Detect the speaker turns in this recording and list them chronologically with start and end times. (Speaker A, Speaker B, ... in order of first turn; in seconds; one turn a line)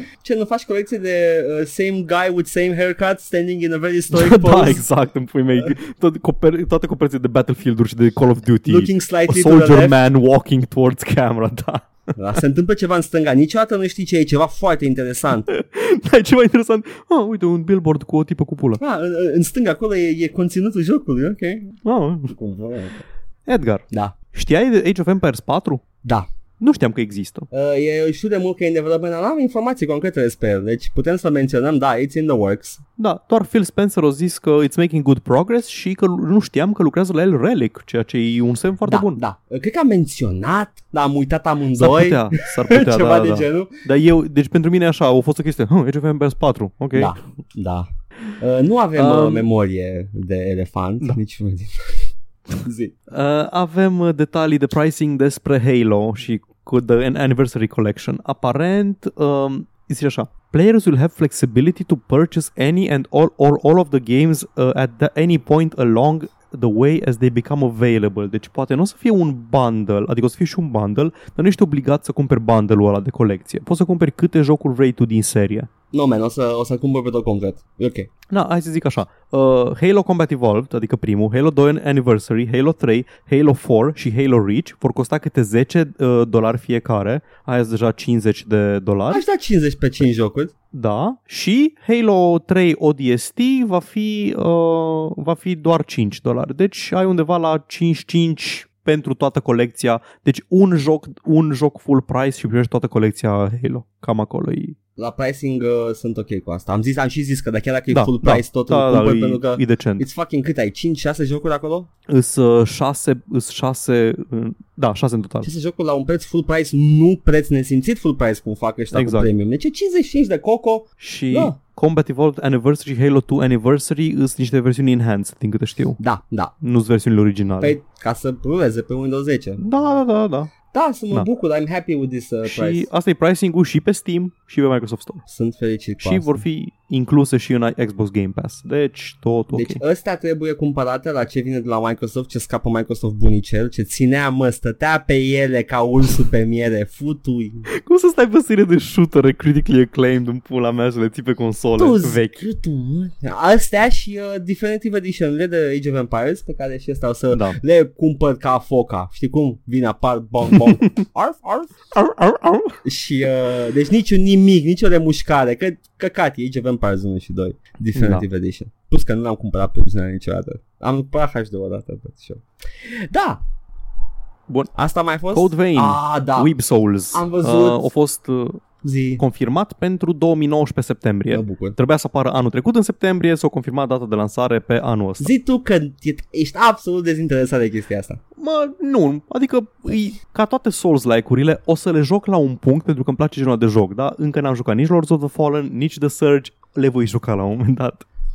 Speaker A: 0.2-4.8
Speaker B: 4.1-11.9
Speaker A: 8.7-9.9
Speaker A: 12.2-15.5
Speaker B: 15.5-18.8
Speaker A: 18.8-21.8
Speaker B: 21.8-22.3
Speaker A: 22.3-23.0
Speaker B: 23.4-25.8
Speaker B: 26.6-27.5
Speaker A: 27.5-32.8
Speaker B: 33.0-39.2
Speaker A: 38.9-43.8
Speaker B: 41.8-47.1
Speaker A: 46.9-47.9
Speaker A: 48.4-52.1
Speaker B: 49.0-49.5
Speaker A: 52.6-52.9
Speaker B: 53.1-75.7
Speaker A: 75.9-78.1
Speaker B: 78.3-89.2
Speaker A: 89.1-90.5
Speaker B: 90.7-104.8
Speaker A: 105.0-111.9
Speaker B: 107.9-110.0
Speaker B: 112.1-115.5
Speaker A: 115.4-121.5
Speaker B: 118.9-119.3
Speaker B: 121.0-126.0
Speaker A: 126.0-126.5
Speaker B: 126.6-127.8
Speaker A: 127.6-129.6
Speaker B: 129.6-130.5
Speaker A: 130.7-132.9
Speaker B: 132.4-135.2
Speaker A: 135.3-136.4
Speaker B: 136.0-139.8
Speaker A: 139.5-147.7
Speaker B: 147.8-152.4
Speaker A: 151.8-161.7
Speaker B: 157.3-157.6
Speaker B: 161.9-162.8
Speaker A: 162.8-172.4
Speaker B: 167.9-168.2
Speaker A: 173.1-173.4
Speaker A: 174.7-176.5
Speaker B: 175.3-178.6
Speaker A: 177.1-177.9
Speaker A: 178.8-179.2
Speaker B: 179.2-185.3
Speaker A: 181.3-181.8
Speaker A: 185.2-188.2
Speaker B: 188.4-198.0